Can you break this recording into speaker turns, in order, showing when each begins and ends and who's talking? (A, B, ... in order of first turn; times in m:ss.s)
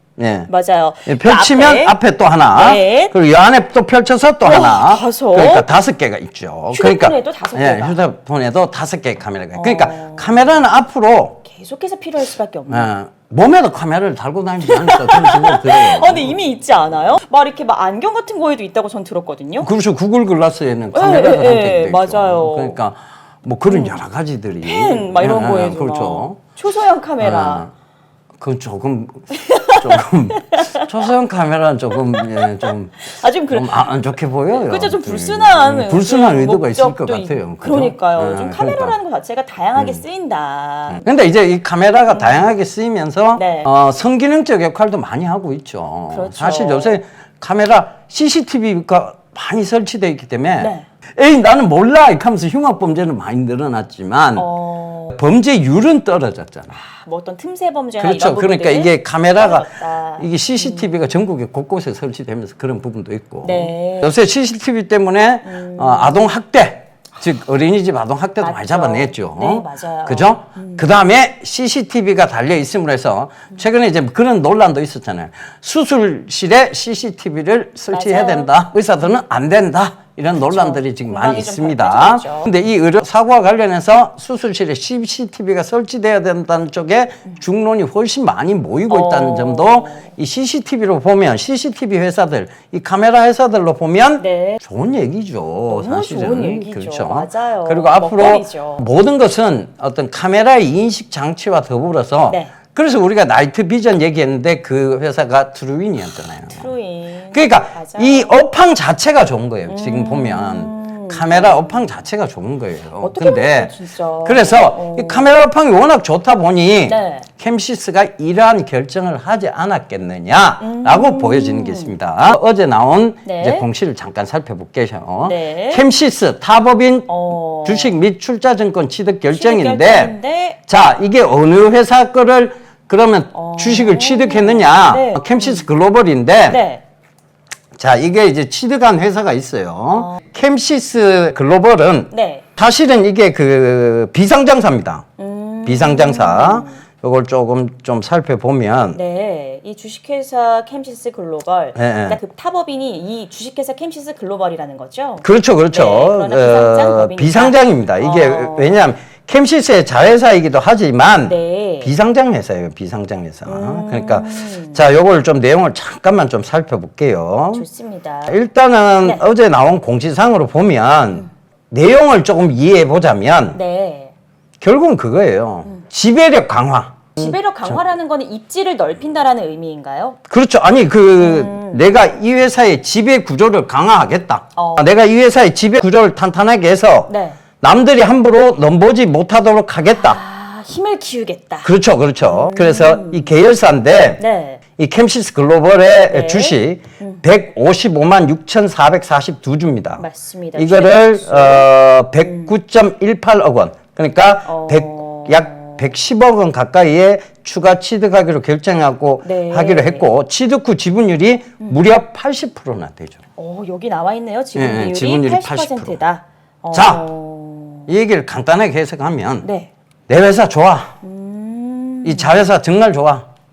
0:00.2-0:00.5 A
0:00.5-0:03.1 B
0:01.1-0:11.4 A
0:04.4-0:05.7 B
0:06.7-0:08.0 B
0:09.5-0:10.5 B
0:11.4-0:12.9 B
0:12.7-0:16.4 A
0:14.6-0:19.7 B
0:19.6-0:26.4 A
0:20.9-0:22.8 B
0:23.7-0:24.0 B
0:24.6-0:27.7 B
0:27.2-0:27.7 A
0:28.4-0:39.0 A
0:29.3-0:31.1 B
0:31.9-0:33.9 B
0:34.5-0:41.1 B
0:39.8-0:40.0 A
0:40.9-0:54.5 A
0:42.1-0:42.5 B
0:43.4-0:43.7 B
0:46.1-0:47.0 B
0:50.6-0:50.9 B
0:54.4-0:55.2 B
0:55.1-0:56.8 A
0:56.7-1:00.9 B
0:58.0-1:46.7 A
1:03.4-1:04.2 B
1:05.4-1:06.3 B
1:08.4-1:10.9 B
1:17.9-1:18.5 B
1:20.4-1:22.5 B
1:28.9-1:30.1 B
1:34.2-1:34.6 B
1:35.7-1:38.8 B
1:46.5-1:48.3 B
1:47.3-2:10.2 A
1:49.7-1:51.9 B
1:53.0-1:55.3 B
1:56.9-1:57.3 B
2:00.6-2:01.9 B
2:03.2-2:03.7 B
2:05.2-2:05.9 B
2:07.1-2:08.0 B
2:09.3-2:10.6 B
2:10.7-2:16.6 A
2:13.3-2:15.7 B
2:16.5-2:16.8 B
2:17.8-2:25.0 A
2:19.9-2:20.2 B
2:22.1-2:22.4 B
2:25.2-2:26.8 B
2:25.6-2:29.0 A
2:28.9-2:38.9 B
2:31.8-2:32.2 A
2:35.2-2:47.7 A
2:41.3-2:41.9 B
2:43.4-2:44.8 B
2:47.5-2:48.4 B
2:48.3-2:53.6 A
2:53.5-2:54.1 B
2:54.6-2:57.8 A
2:57.2-3:00.2 B
3:00.3-3:10.2 A
3:01.2-3:01.8 B
3:04.6-3:04.9 B
3:07.1-3:07.4 B
3:10.0-3:11.7 B
3:11.6-3:14.2 A
3:12.2-3:13.4 B
3:14.2-3:14.6 B
3:14.8-3:20.0 A
3:16.1-3:17.2 B
3:20.0-3:21.7 B
3:20.6-3:33.2 A
3:22.2-3:22.5 B
3:24.4-3:25.9 B
3:29.2-3:30.1 B
3:33.4-3:37.9 B
3:34.6-3:36.0 A
3:36.7-3:37.1 A
3:37.9-3:39.5 A
3:39.4-3:39.7 B
3:40.1-3:41.0 A
3:41.0-3:42.5 B
3:42.0-3:43.3 A